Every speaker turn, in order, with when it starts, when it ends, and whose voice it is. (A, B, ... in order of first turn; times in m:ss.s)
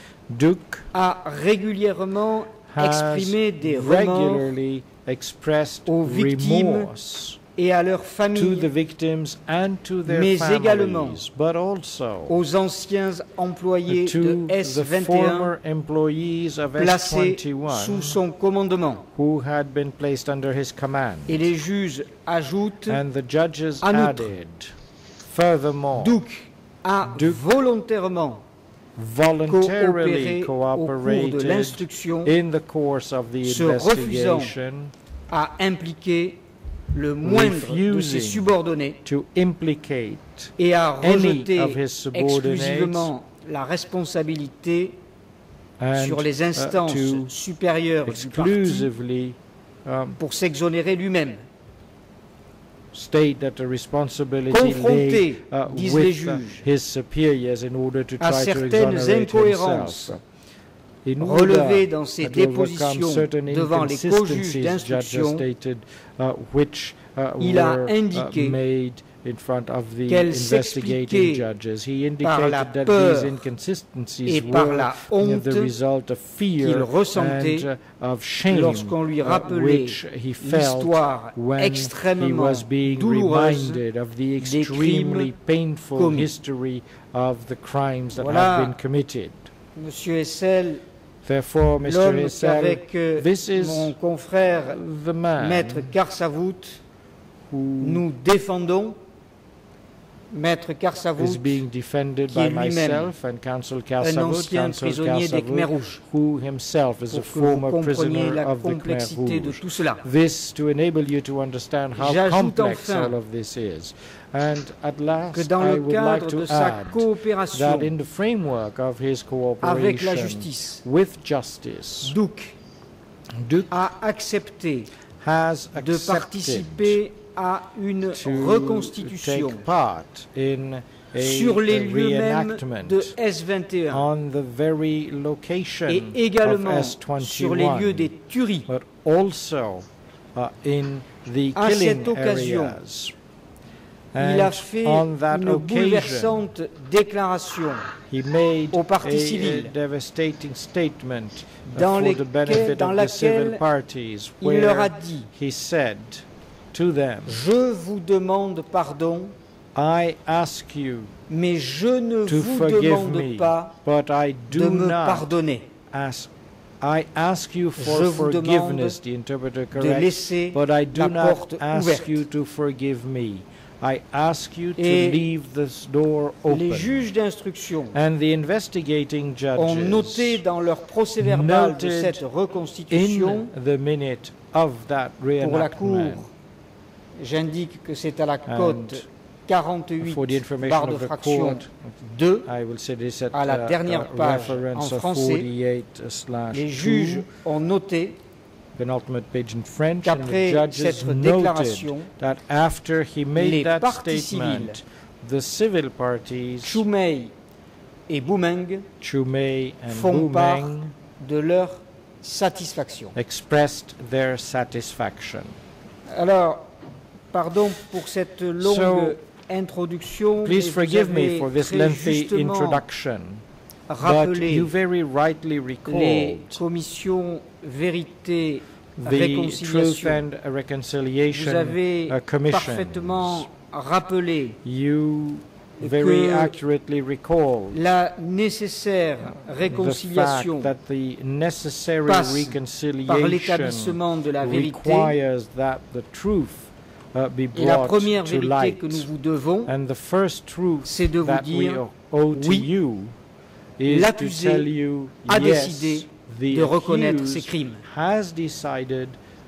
0:00.3-0:00.9 A
0:00.9-0:04.5 B
0:02.7-0:07.4 A
0:05.8-0:06.9 B
0:07.6-0:08.7 B
0:08.3-0:12.3 A
0:10.0-0:11.2 B
0:12.3-0:15.5 B
0:13.9-0:18.2 A
0:16.8-0:19.0 B
0:19.1-0:21.4 A
0:21.3-0:23.0 B
0:22.8-0:24.7 A
0:23.8-0:24.3 B
0:25.2-0:26.2 A
0:25.9-0:28.4 B
0:27.1-0:27.4 A
0:29.0-0:34.9 A
0:29.5-0:32.3 B
0:33.4-0:34.6 B
0:35.3-0:36.4 B
0:36.9-0:39.0 B
0:37.2-0:38.5 A
0:39.0-0:43.1 A
0:40.6-0:45.0 B
0:45.8-0:47.3 A
0:45.9-0:48.9 B
0:48.0-0:50.2 A
0:50.2-0:51.4 B
0:52.9-1:00.2 A
0:54.5-0:56.6 B
0:58.2-1:00.2 B
1:01.0-1:29.5 A
1:01.2-1:05.4 B
1:07.4-1:08.6 B
1:10.1-1:11.5 B
1:12.2-1:13.4 B
1:14.2-1:15.7 B
1:16.6-1:17.7 B
1:18.5-1:23.8 B
1:24.4-1:25.3 B
1:25.9-1:26.3 B
1:28.2-1:28.8 B
1:29.8-1:30.8 B
1:31.2-1:33.9 A
1:31.8-1:34.8 B
1:34.6-1:35.9 A
1:35.4-1:36.8 B
1:37.5-1:38.0 A
1:37.8-1:39.0 B
1:40.3-1:41.6 B
1:41.2-2:02.2 A
1:42.3-1:43.1 B
1:44.0-1:46.0 B
1:47.1-1:50.0 B
1:51.9-1:53.2 B
1:55.3-1:57.9 B
1:59.6-2:00.8 B
2:02.0-2:02.5 B
2:03.4-2:03.7 A
2:03.7-2:04.9 B
2:05.2-2:07.0 A
2:05.8-2:09.6 B
2:08.1-2:13.1 A
2:11.1-2:14.1 B
2:13.9-2:18.1 A
2:15.9-2:18.7 B
2:18.7-2:23.1 A
2:21.5-2:22.8 B
2:24.1-2:26.4 A
2:24.2-2:27.9 B
2:28.1-2:37.4 A
2:28.7-2:29.7 B
2:31.7-2:33.6 B
2:34.4-2:35.3 B
2:37.3-2:39.3 B
2:39.7-2:41.1 A
2:41.3-2:43.7 B
2:42.2-2:45.3 A
2:44.5-2:45.7 B
2:45.9-2:57.0 A
2:47.8-2:49.0 B
2:49.7-2:52.2 B
2:54.8-2:55.2 B
2:56.5-2:58.0 B
2:57.9-3:00.4 A
2:59.6-3:03.5 B
3:01.2-3:02.2 A
3:02.9-3:06.3 A
3:05.4-3:06.3 B
3:07.2-3:12.5 B
3:08.5-3:09.0 A
3:10.0-3:11.9 A
3:12.4-3:17.3 A
3:13.3-3:15.5 B
3:16.5-3:18.2 B
3:18.8-3:26.8 A
3:20.0-3:22.1 B
3:23.4-3:24.8 B
3:26.6-3:27.3 B
3:28.1-3:28.9 B
3:29.0-3:30.9 A
3:29.9-3:33.1 B
3:33.1-3:35.6 A
3:36.1-3:36.7 B
3:37.3-3:42.8 B
3:38.6-3:39.2 A
3:40.4-3:43.4 A
3:43.9-3:44.7 B
3:44.0-3:46.6 A
3:45.8-3:50.2 B
3:49.0-3:53.5 A
3:51.3-3:54.6 B
3:54.6-3:57.8 A
3:55.8-3:56.5 B
3:57.7-4:00.7 B
3:59.6-4:09.1 A
4:02.0-4:05.2 B
4:07.5-4:09.7 B
4:09.6-4:13.2 A
4:10.8-4:12.7 B
4:13.8-4:19.2 A
4:13.9-4:14.7 B
4:15.2-4:17.8 B